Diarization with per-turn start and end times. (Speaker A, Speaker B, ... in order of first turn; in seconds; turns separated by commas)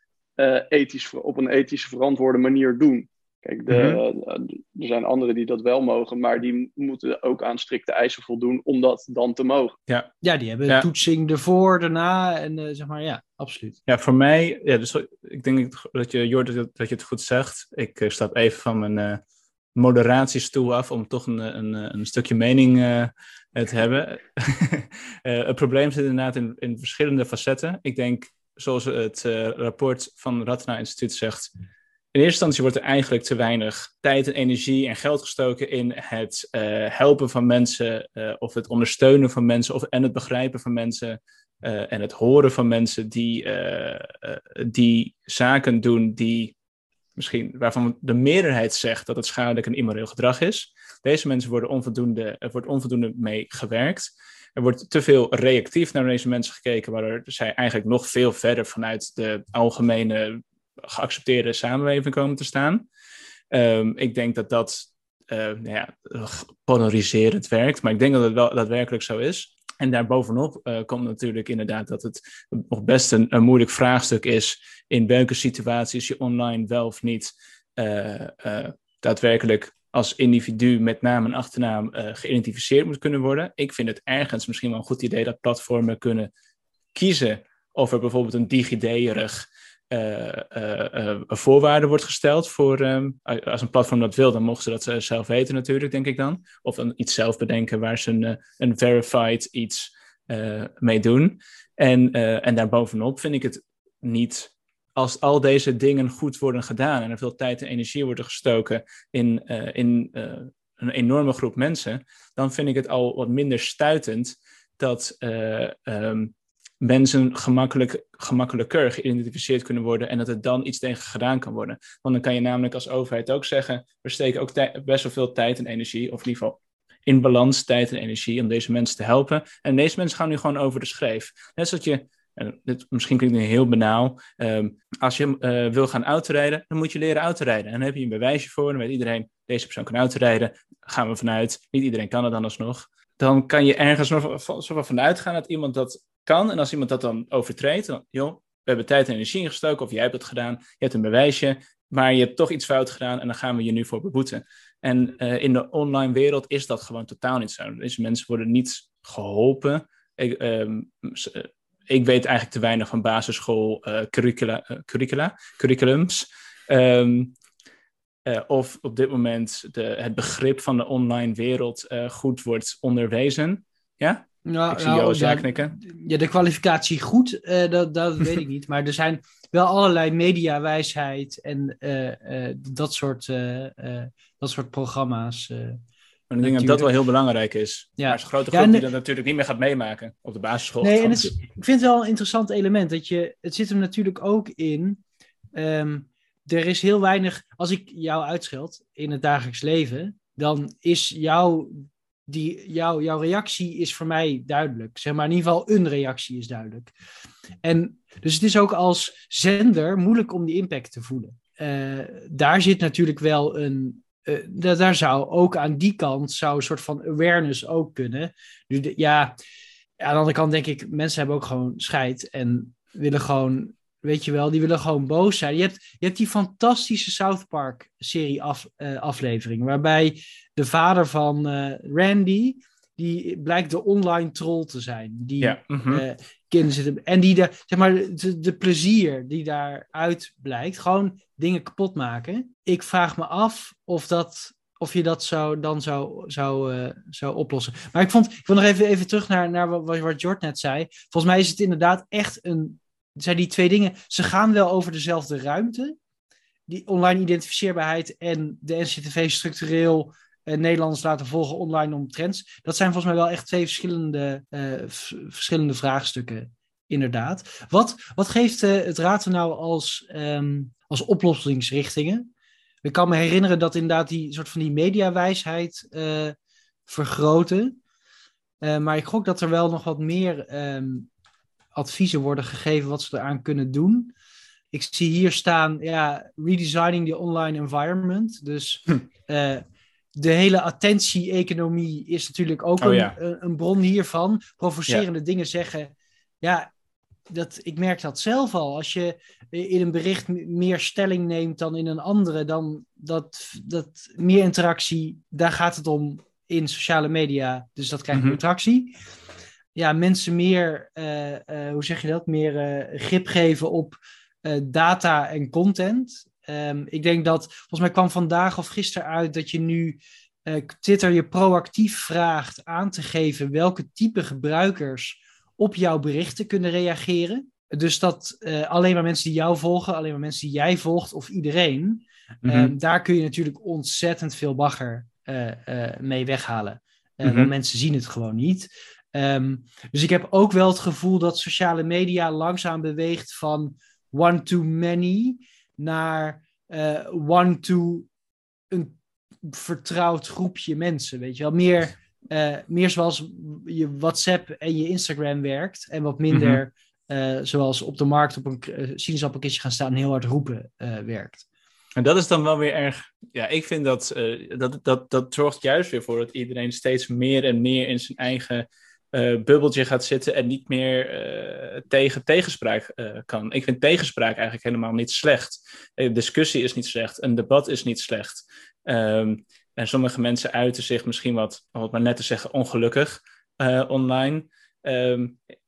Speaker A: 0.4-9.8, Speaker B: 3.7-4.0, Speaker C: 10.2-13.8, Speaker B: 13.9-19.2, Speaker B: 19.7-31.5, Speaker B: 32.1-46.5, Speaker B: 47.1-62.9, Speaker B: 63.5-86.3, Speaker B: 86.9-167.3, Speaker B: 168.2-175.7, Speaker C: 174.4-185.8, Speaker B: 186.3-191.3, Speaker C: 186.4-186.9, Speaker C: 188.0-188.8, Speaker C: 190.8-195.0, Speaker C: 195.5-206.9, Speaker C: 207.6-219.3, Speaker C: 220.0-256.0, Speaker B: 235.4-236.0, Speaker C: 256.7-272.3, Speaker C: 272.8-276.4, Speaker C: 276.9-277.8, Speaker C: 278.6-281.1, Speaker C: 281.7-284.1, Speaker C: 284.7-289.6, Speaker C: 290.1-296.7, Speaker B: 292.8-293.1, Speaker C: 297.3-308.9, Speaker B: 308.1-308.4, Speaker C: 309.7-348.1, Speaker B: 332.4-332.7, Speaker B: 337.2-337.5, Speaker C: 348.7-361.4, Speaker B: 356.3-356.6, Speaker B: 362.0-385.4